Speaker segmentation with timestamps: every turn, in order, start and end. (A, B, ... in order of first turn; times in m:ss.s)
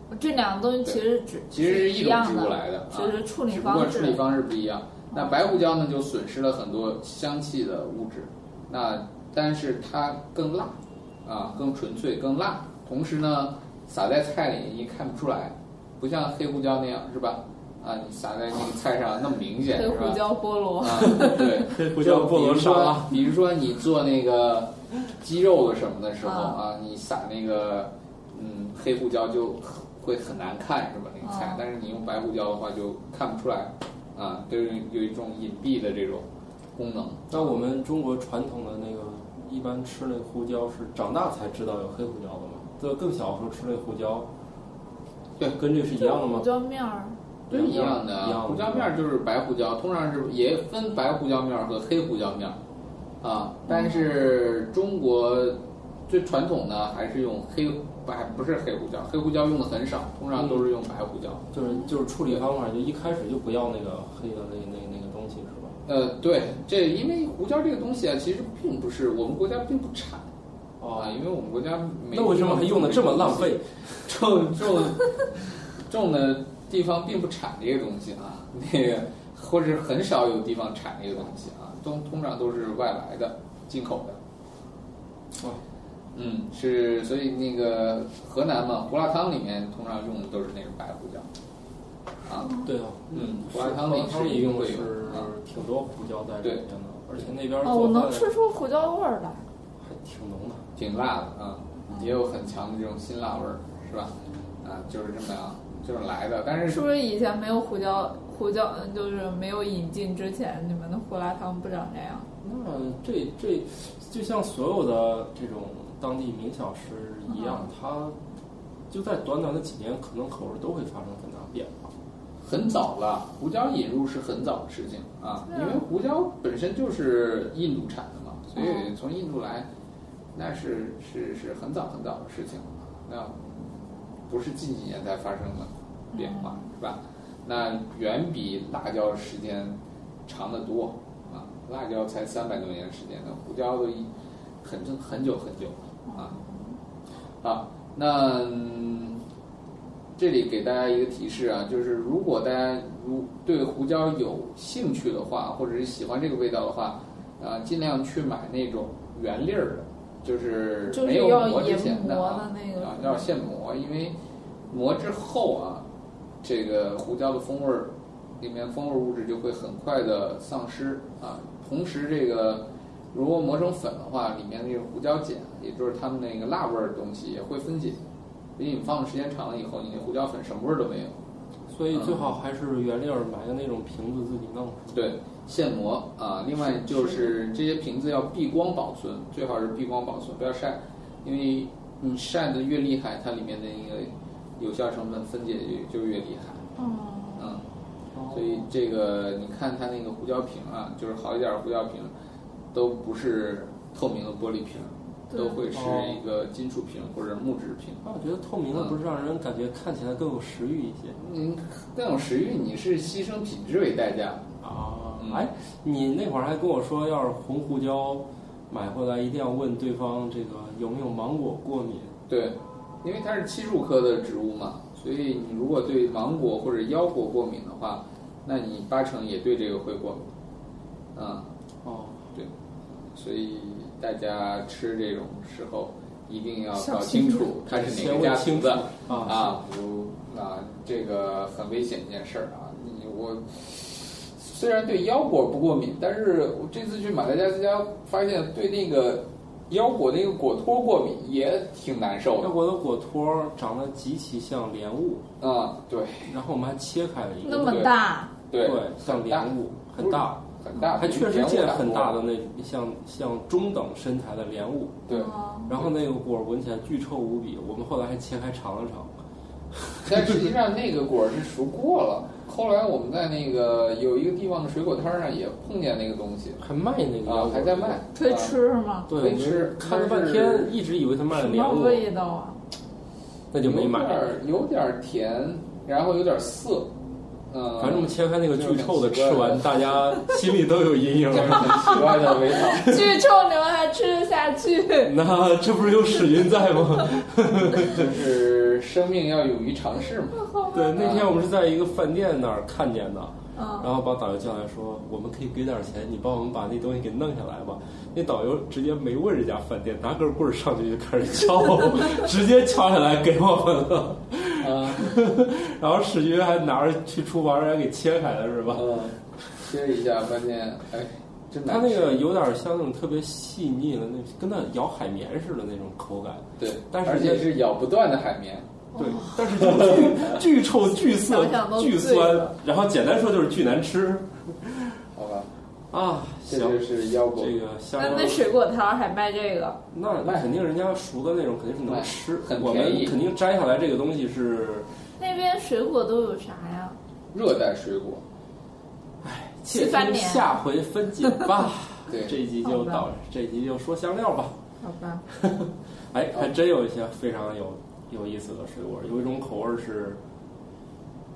0:00.1-0:04.2 A
0:00.8-0:20.2 B
0:05.1-0:05.4 A
0:19.8-0:21.6 A
0:20.8-0:37.6 B
0:21.1-0:23.2 C
0:26.2-0:26.6 A
0:31.2-0:31.6 A
0:37.3-0:44.3 C
0:45.6-0:46.5 C
0:45.9-0:47.2 A
0:47.5-0:52.6 B
0:47.5-0:49.0 C
0:53.2-1:01.5 B
0:53.7-0:54.1 A
1:00.4-1:00.7 C
1:01.5-1:05.7 C
1:01.6-1:01.9 A
1:05.8-1:10.2 B
1:10.8-1:11.2 C
1:10.9-1:24.2 B
1:12.1-1:14.0 C
1:26.1-1:31.3 B
1:32.2-1:32.5 B
1:32.4-1:32.7 A
1:32.6-1:38.3 C
1:33.1-1:35.3 B
1:37.6-1:39.4 A
1:39.8-1:40.6 C
1:40.8-1:46.8 B
1:41.9-1:42.1 A
1:46.7-1:52.3 A
1:52.4-1:58.2 C
1:57.3-1:57.7 A
1:58.9-2:01.7 C
2:02.4-2:09.7 B
2:05.5-2:05.8 A
2:08.6-2:08.9 A
2:10.3-2:24.1 B
2:16.1-2:16.6 A
2:24.6-2:26.4 B
2:26.1-2:26.8 A
2:27.4-2:29.2 B
2:30.2-2:44.1 B
2:40.9-2:43.3 A
2:44.7-2:45.8 B
2:46.4-2:58.0 B
2:58.6-3:01.2 B
3:01.7-3:04.9 C
3:01.9-3:02.3 B
3:04.9-3:16.6 B
3:16.8-3:17.5 A
3:17.4-3:17.6 B
3:18.1-3:18.6 C
3:18.3-3:22.1 B
3:22.7-3:28.0 B
3:25.3-3:25.6 A
3:25.7-3:26.2 C
3:28.0-3:31.2 C
3:31.2-3:34.5 B
3:34.6-3:42.1 C
3:35.2-3:35.5 B
3:42.3-3:50.2 B
3:51.1-3:51.5 B
3:51.8-3:52.3 C
3:53.1-4:12.5 B
3:56.8-3:57.5 A
3:57.6-3:59.4 C
3:59.1-3:59.4 A
4:12.4-4:15.2 C
4:15.4-4:16.3 B
4:16.2-4:17.9 C
4:17.4-4:18.3 A
4:18.5-4:22.2 B
4:18.6-4:20.4 C
4:21.0-4:25.0 C
4:25.1-4:25.7 A
4:25.7-4:29.2 C
4:29.7-4:30.4 C
4:30.0-4:36.6 B
4:36.6-4:38.0 C
4:37.2-4:38.6 B
4:38.1-4:39.1 A
4:39.1-4:42.0 C
4:39.1-4:40.7 B
4:41.3-4:42.6 A
4:43.5-4:44.2 C
4:43.6-4:46.9 B
4:47.5-4:49.9 B
4:47.8-4:52.3 C
4:51.3-4:53.0 B
4:52.8-4:55.1 A
4:55.0-4:58.1 C
4:57.7-5:01.4 B
5:00.4-5:00.8 A
5:00.7-5:18.9 C
5:03.6-5:03.9 A
5:14.6-5:15.2 B
5:18.7-5:22.2 B
5:21.6-5:27.5 C
5:26.6-5:28.7 B
5:28.9-5:29.4 A
5:29.0-5:35.0 C
5:29.7-5:30.3 B
5:31.0-5:32.5 A
5:35.1-5:35.5 B
5:35.9-5:38.5 C
5:36.5-5:37.6 B
5:38.0-5:39.8 A
5:39.9-5:44.9 C
5:40.1-5:40.6 B
5:41.8-5:43.2 B
5:45.2-5:47.0 A
5:47.3-5:48.2 B
5:49.2-5:54.5 C
5:49.7-5:50.6 A
5:52.1-5:52.4 B
5:52.6-5:53.0 A
5:54.8-5:55.2 A
5:55.3-6:00.2 C